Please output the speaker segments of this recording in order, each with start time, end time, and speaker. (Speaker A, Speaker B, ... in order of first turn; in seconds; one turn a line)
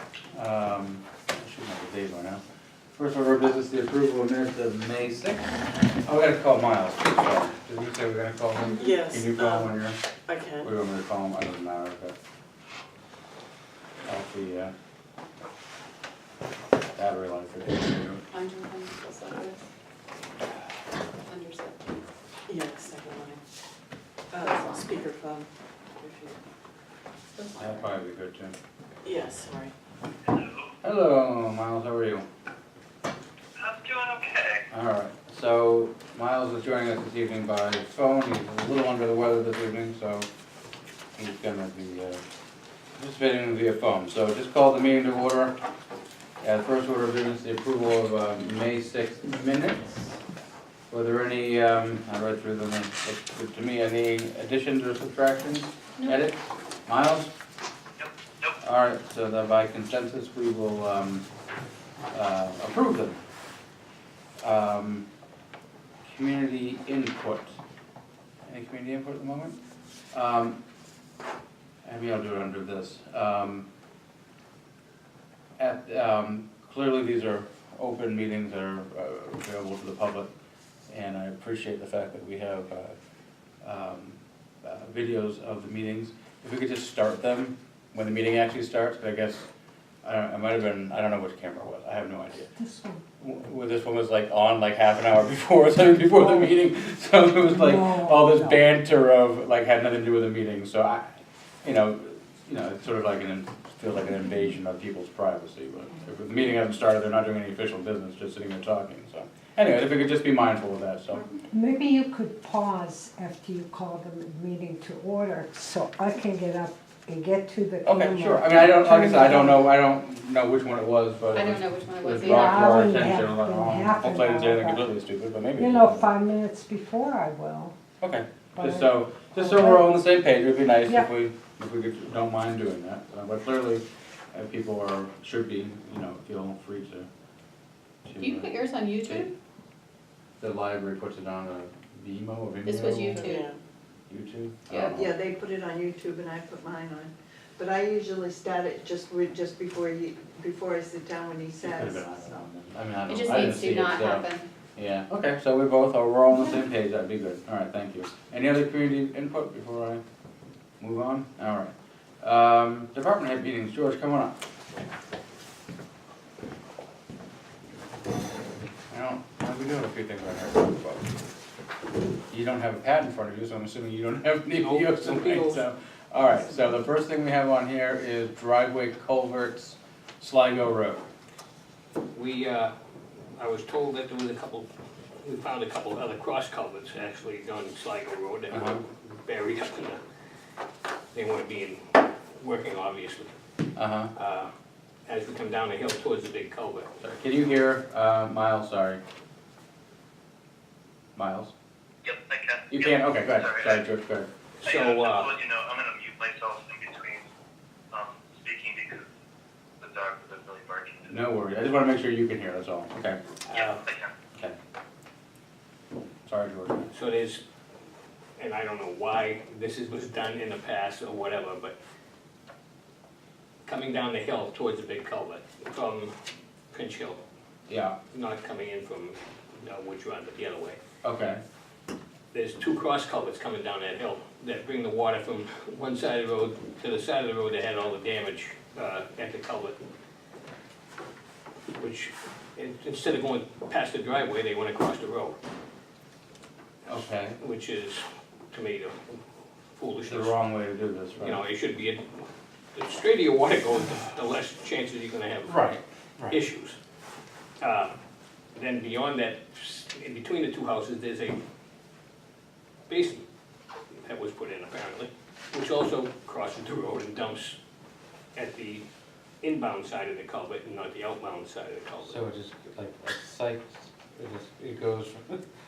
Speaker A: 0.3-2.4
Speaker A: 3.0-10.0
Speaker B: 8.8-9.7
Speaker B: 10.3-10.7
Speaker A: 10.6-12.1
Speaker A: 14.0-14.7
Speaker A: 16.9-18.2
Speaker C: 18.3-19.6
Speaker C: 21.2-22.0
Speaker B: 22.5-23.4
Speaker B: 24.3-25.5
Speaker C: 24.3-24.9
Speaker B: 26.0-26.4
Speaker C: 27.4-27.9
Speaker A: 27.6-28.5
Speaker B: 29.0-29.7
Speaker D: 30.3-30.6
Speaker A: 30.8-32.2
Speaker D: 33.6-34.6
Speaker A: 34.7-40.3
Speaker A: 41.1-42.2
Speaker A: 43.0-45.5
Speaker A: 46.4-49.9
Speaker A: 50.9-57.3
Speaker D: 58.0-58.5
Speaker A: 58.6-61.2
Speaker A: 62.1-63.2
Speaker A: 64.4-65.0
Speaker A: 66.0-67.5
Speaker A: 68.5-69.6
Speaker A: 70.1-70.6
Speaker A: 71.8-73.7
Speaker A: 75.6-80.3
Speaker A: 80.9-83.0
Speaker A: 83.6-89.5
Speaker A: 90.0-92.5
Speaker E: 92.6-93.0
Speaker A: 93.2-101.1
Speaker E: 97.5-98.6
Speaker A: 101.6-111.2
Speaker E: 111.5-119.7
Speaker A: 117.8-126.1
Speaker C: 121.3-123.2
Speaker E: 122.2-124.9
Speaker E: 125.5-127.7
Speaker A: 128.0-137.1
Speaker E: 128.6-129.9
Speaker A: 138.1-139.3
Speaker C: 138.2-139.3
Speaker A: 140.4-143.3
Speaker C: 142.7-143.5
Speaker B: 143.2-143.6
Speaker A: 144.1-145.1
Speaker C: 144.7-144.9
Speaker F: 144.9-152.4
Speaker A: 151.6-160.0
Speaker C: 153.1-154.4
Speaker A: 160.8-164.3
Speaker A: 168.9-171.1
Speaker A: 172.3-181.1
Speaker G: 174.5-175.6
Speaker G: 182.1-182.7
Speaker G: 183.3-184.7
Speaker G: 185.2-190.0
Speaker A: 188.5-188.8
Speaker G: 191.1-193.3
Speaker A: 193.8-194.1
Speaker G: 194.1-194.5
Speaker G: 195.1-196.9
Speaker A: 197.0-199.0
Speaker A: 201.2-201.5
Speaker D: 202.0-203.8
Speaker A: 202.7-204.3
Speaker D: 204.6-207.2
Speaker G: 204.6-205.3
Speaker D: 207.9-209.1
Speaker D: 209.8-211.1
Speaker A: 211.1-213.2
Speaker G: 213.4-213.8
Speaker D: 213.5-214.1
Speaker A: 216.2-216.9
Speaker G: 216.9-217.4
Speaker G: 218.4-221.7
Speaker G: 223.6-226.1
Speaker G: 226.7-227.2
Speaker A: 227.7-227.9
Speaker G: 228.1-230.8
Speaker A: 231.0-231.4
Speaker G: 232.3-239.8
Speaker G: 241.8-245.4
Speaker A: 246.8-247.4
Speaker G: 246.9-249.2
Speaker G: 249.8-250.3
Speaker A: 250.1-251.4
Speaker G: 251.2-255.5
Speaker A: 255.4-256.4
Speaker G: 256.3-256.8
Speaker G: 257.6-257.9
Speaker G: 258.6-261.4
Speaker G: 262.9-263.2
Speaker G: 264.0-267.6
Speaker G: 268.3-268.8
Speaker G: 269.4-272.2
Speaker A: 272.0-275.4